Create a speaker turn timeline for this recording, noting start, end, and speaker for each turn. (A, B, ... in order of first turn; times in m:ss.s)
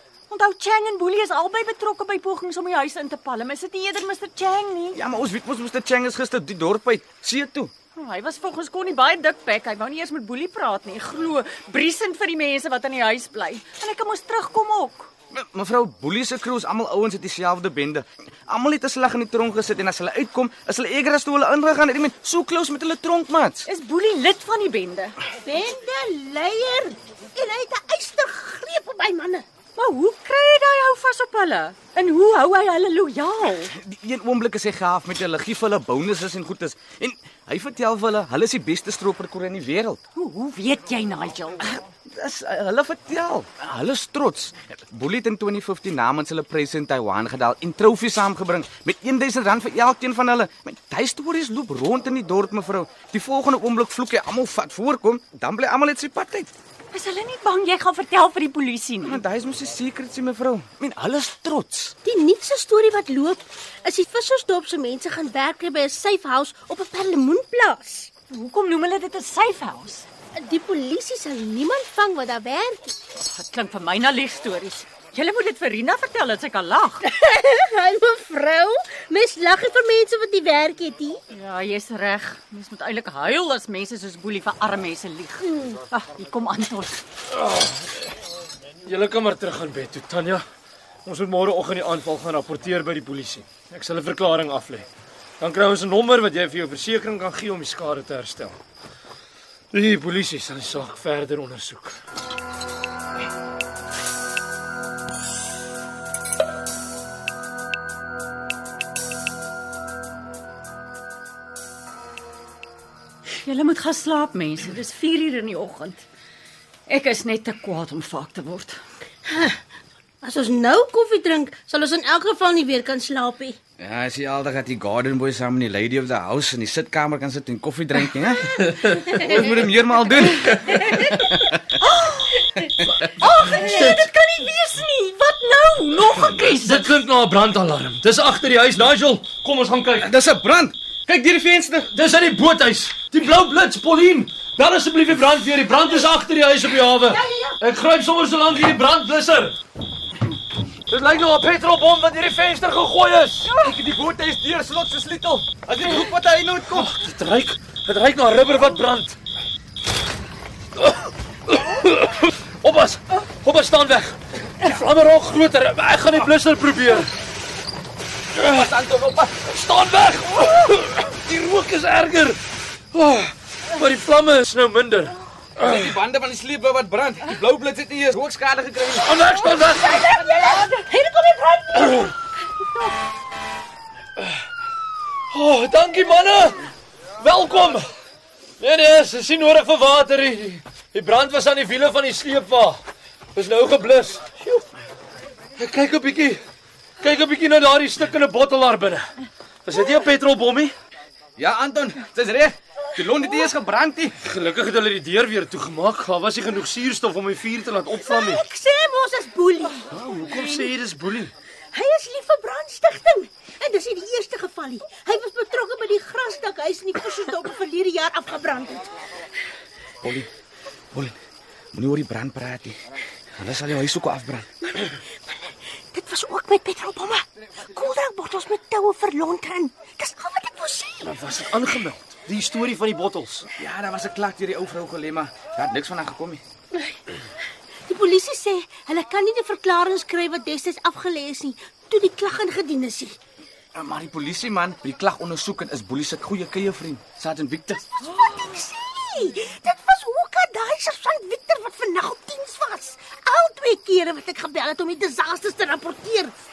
0:00.3-0:05.0 A
0:04.9-0:07.7 B
0:08.0-0:15.1 A
0:15.3-0:23.6 B
0:23.6-0:25.2 A
0:25.4-0:29.4 C
0:29.8-0:33.7 A
0:33.7-0:40.0 B
0:40.2-0:41.6 A
0:41.6-0:56.5 B
0:56.9-0:59.2 A
0:59.0-1:02.0 B
1:02.0-1:08.1 C
1:08.3-1:10.0 A
1:10.4-1:13.0 C
1:13.2-1:17.0 A
1:17.0-1:21.2 C
1:21.3-1:27.0 A
1:27.3-1:28.0 D
1:28.8-1:30.4 D
1:31.0-1:34.8 D
1:35.4-1:38.6 D
1:39.7-1:42.0 D
1:53.4-1:56.0 A
1:56.9-1:58.8 A
1:59.3-1:59.6 C
2:00.2-2:03.6 C
2:03.8-2:11.6 B
2:08.6-2:09.1 D
2:11.7-2:16.8 A
2:13.0-2:14.1 D
2:16.2-2:20.1 D
2:20.0-2:21.9 B
2:21.9-2:29.6 D
2:30.9-2:33.5 D
2:33.5-2:36.9 B
2:36.7-2:39.2 D
2:40.8-2:47.1 D
2:48.4-2:49.4 B
2:48.4-2:48.7 D
2:49.4-2:52.4 D
2:52.9-2:55.9 D
2:55.6-2:59.1 B
2:59.0-3:00.0 D
2:59.4-3:02.1 C
3:01.8-3:02.1 D
3:05.3-3:06.7 D
3:07.2-3:07.8 D
3:08.6-3:12.8 D
3:13.3-3:14.6 D
3:15.6-3:16.4 D
3:17.0-3:19.1 D
3:19.6-3:20.7 D
3:21.4-3:24.2 B
3:24.2-3:28.4 D
3:28.0-3:29.9 C
3:29.9-3:31.3 D
3:31.7-3:38.9 C
3:40.0-3:40.3 B
3:41.7-3:42.8 B
3:43.4-3:44.5 B
3:44.6-3:45.0 C
3:45.9-3:51.2 C
3:51.0-3:53.5 D
3:53.6-3:56.4 B
3:57.9-4:03.2 C
4:03.7-4:07.9 B
4:08.0-4:16.3 C